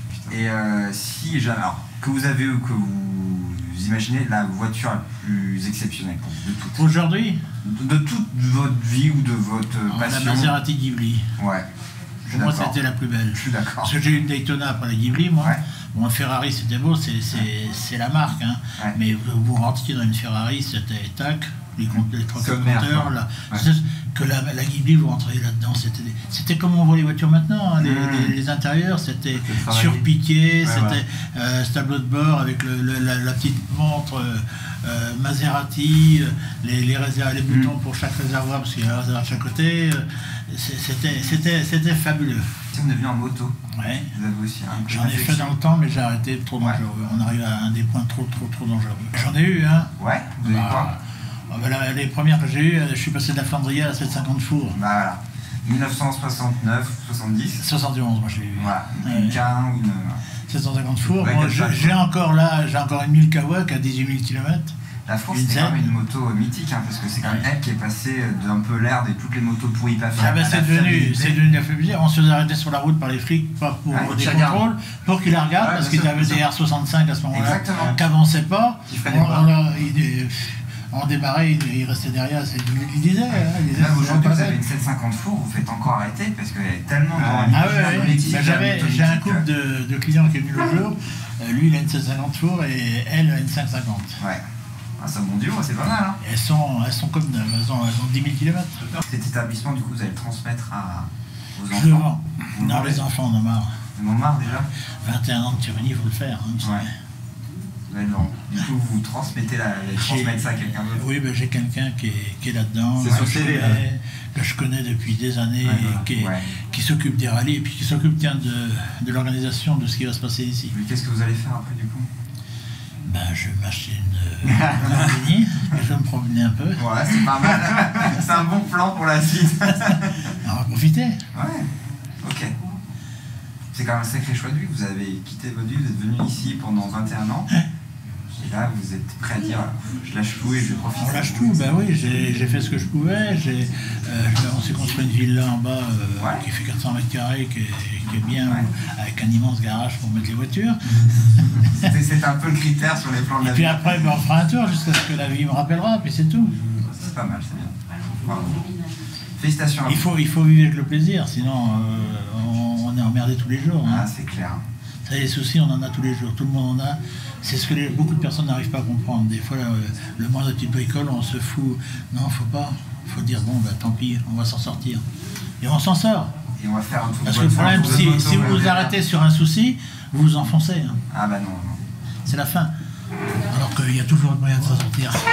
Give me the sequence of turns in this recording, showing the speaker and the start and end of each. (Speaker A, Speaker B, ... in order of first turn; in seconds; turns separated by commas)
Speaker A: 0.2-6.9, Speaker B: 6.8-7.4, Speaker A: 7.6-10.5, Speaker B: 9.9-11.3, Speaker A: 11.4-11.7, Speaker B: 12.3-42.5, Speaker A: 12.3-12.7, Speaker A: 13.3-13.9, Speaker A: 21.9-23.6, Speaker A: 27.8-28.3, Speaker A: 29.4-30.0, Speaker A: 30.6-31.0, Speaker A: 37.5-37.7, Speaker A: 42.7-43.5, Speaker B: 43.7-44.1, Speaker A: 44.1-45.5, Speaker B: 44.9-54.8, Speaker A: 50.0-50.9, Speaker A: 54.7-57.6, Speaker B: 57.6-59.4, Speaker A: 58.5-60.2, Speaker B: 60.4-64.7, Speaker A: 61.1-62.0, Speaker A: 65.1-71.4, Speaker B: 65.3-65.9, Speaker B: 70.1-84.6, Speaker A: 73.9-74.6, Speaker A: 75.6-76.4, Speaker A: 77.3-78.0, Speaker A: 78.9-79.5, Speaker A: 83.7-89.4, Speaker B: 87.1-94.2, Speaker A: 95.0-96.2, Speaker B: 96.2-98.9, Speaker A: 99.0-103.0, Speaker B: 101.7-103.7, Speaker A: 104.0-104.7, Speaker B: 105.0-106.9, Speaker A: 107.9-111.0, Speaker B: 110.0-120.7, Speaker A: 113.0-113.8, Speaker A: 115.6-116.4, Speaker A: 120.7-122.1, Speaker B: 123.0-128.0, Speaker A: 124.6-125.1, Speaker A: 126.8-130.3, Speaker B: 130.4-131.2, Speaker A: 131.3-131.7, Speaker A: 132.2-132.5, Speaker A: 133.7-137.5, Speaker A: 138.4-141.8, Speaker B: 141.0-151.1, Speaker A: 146.2-146.4, Speaker A: 151.5-153.9, Speaker B: 153.4-156.5, Speaker A: 156.6-158.7, Speaker A: 159.3-160.1, Speaker B: 159.8-164.1, Speaker A: 163.8-164.6, Speaker B: 165.0-175.0, Speaker B: 175.6-176.3, Speaker A: 176.6-178.9, Speaker B: 177.2-181.0, Speaker A: 181.1-181.8, Speaker B: 182.2-182.7, Speaker B: 183.4-185.2